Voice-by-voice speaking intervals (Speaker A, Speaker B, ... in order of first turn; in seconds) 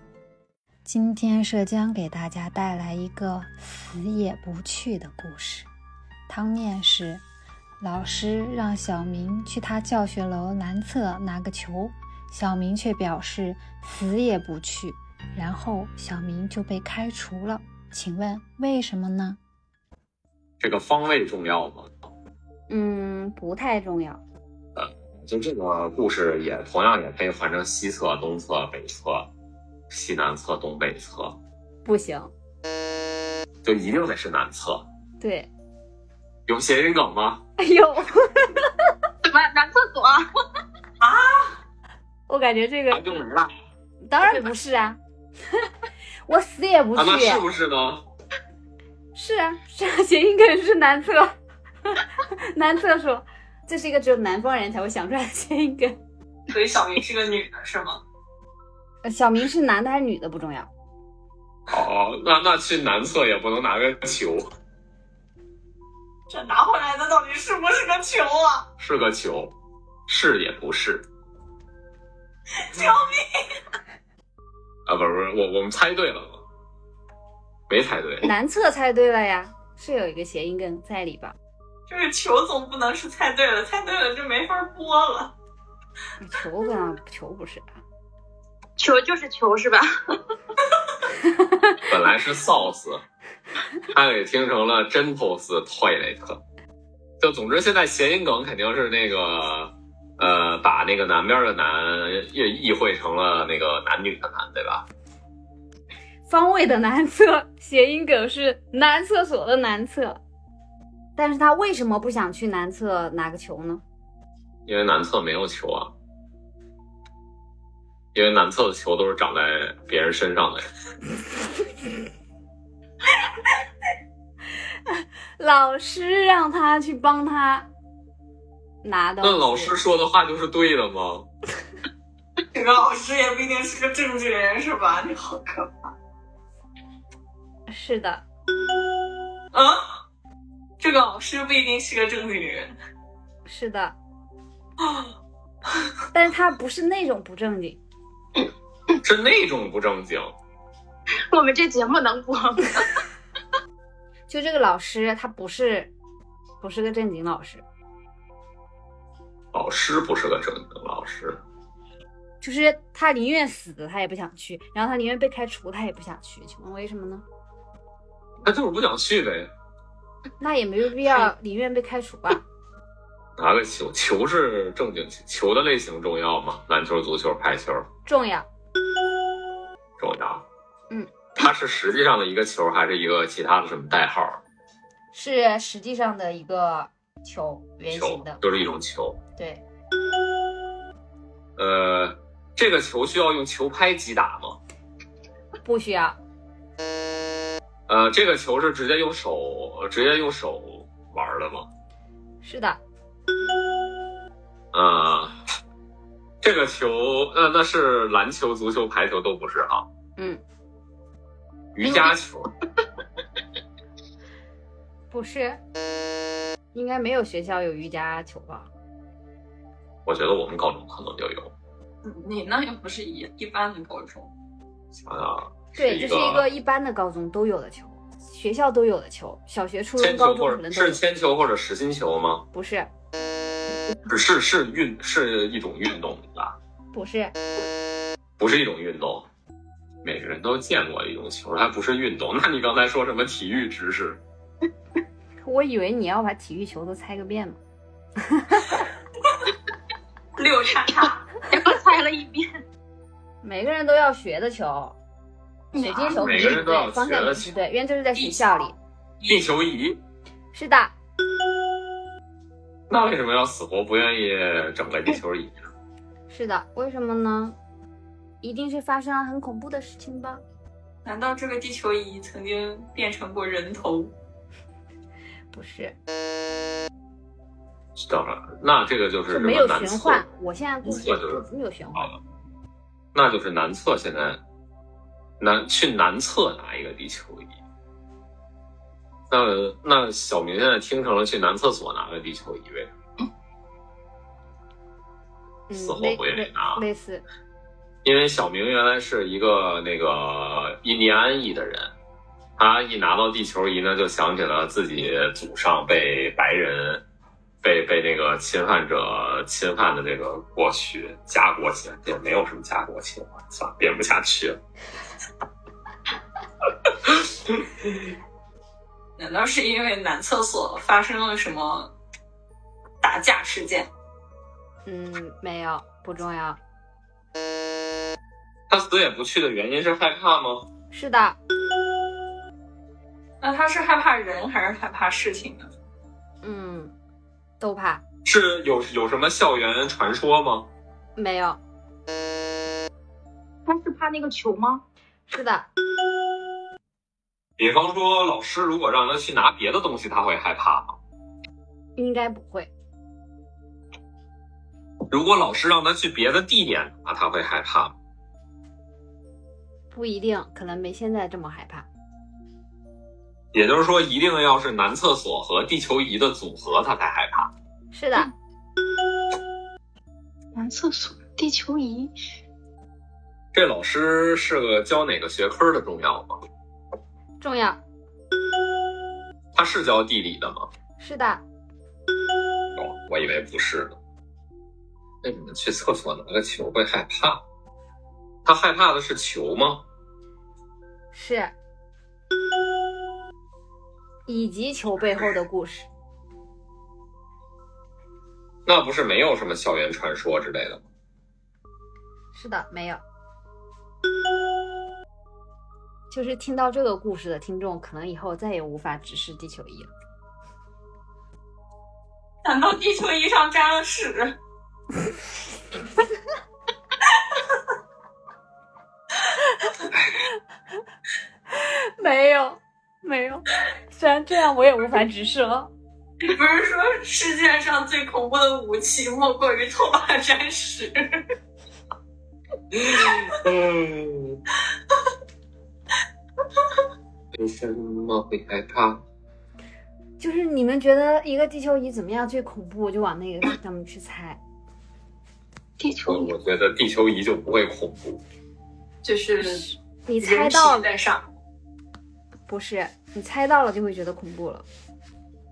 Speaker A: 0.9-5.7, 6.3-7.2, 7.8-19.4
Speaker B: 20.6-21.9, 24.8-29.3, 29.9-31.4, 33.6-34.9, 36.5-37.4, 42.9-43.5, 47.0-48.0, 61.7-64.5, 68.8-69.5, 70.1-71.1, 74.9-76.4, 77.7-78.3, 91.9-93.0, 93.9-96.4, 97.2-104.9, 114.7-115.9, 118.1-120.7, 129.2-131.3, 149.0-150.3, 159.5-161.4, 168.4-169.5, 173.4-177.9, 180.0-180.4, 181.4-184.4, 187.9-189.2, 191.6-194.6, 197.9-201.7, 204.7-205.3, 206.4-209.9, 211.8-212.5, 220.1-221.5, 225.0-226.5, 230.0-232.4, 234.1-236.6, 238.4-239.3, 240.0-244.2, 256.1-257.5, 259.3-260.0, 262.9-265.7, 278.0-280.2, 280.9-281.4, 283.1-284.4, 285.4-287.6, 289.3-292.9, 295.7-296.8, 298.0-301.9, 302.6-307.0, 307.6-314.6, 317.1-317.5, 328.7-330.7, 338.2-340.7, 347.6-351.0, 355.1-357.9, 363.5-367.5, 373.5-376.4, 379.5-380.7, 382.8-384.0, 385.2-387.4, 388.4-389.9, 398.7-400.8, 432.7-434.4, 437.4-439.0, 446.1-448.2
Speaker C: 22.7-24.2, 31.9-32.3, 35.2-35.5, 37.6-38.6, 42.3-43.2, 44.0-45.0, 46.2-47.5, 49.1-51.3, 51.9-56.0, 59.0-60.7, 78.2-81.4, 86.2-87.8, 106.3-110.2, 111.2-113.8, 125.4-127.7, 128.8-129.8, 137.7-138.2, 143.5-144.0, 146.1-147.8, 154.3-155.9, 156.6-157.7, 162.4-167.2, 170.4-172.4, 178.1-178.5, 185.1-188.4, 189.4-189.6, 195.6-196.2, 202.4-202.8, 215.1-215.6, 216.7-218.7, 225.8-231.0, 232.5-232.9, 236.9-237.4, 245.4-247.6, 248.4-248.8, 253.4-255.0, 255.8-258.8, 260.5-260.9, 266.3-267.6, 268.4-270.4, 275.5-276.0, 279.3-282.1, 295.7-297.2, 324.9-326.6, 330.9-331.4, 336.4-336.9, 337.6-338.0, 341.2-341.6, 345.3-345.7, 352.0-352.7, 359.9-361.9, 367.9-368.3, 377.4-377.8, 381.0-381.4, 391.1-391.5, 394.3-395.9, 402.3-403.0, 406.1-409.9, 422.0-425.7, 440.2-444.4, 450.1-450.9, 452.5-454.6
Speaker D: 39.2-40.3, 88.8-90.1, 151.3-153.0, 251.5-252.5, 255.7-256.4, 343.7-344.8, 370.6-372.1, 445.8-446.3
Speaker E: 41.1-41.4, 56.5-58.0, 66.3-68.7, 72.6-73.3, 81.9-85.3, 132.5-135.9, 139.5-139.8, 140.8-142.7, 222.0-224.3, 250.4-251.2, 271.1-274.1, 319.2-321.9, 323.0-323.9, 333.4-335.7, 412.4-414.4, 426.2-431.2, 449.0-451.3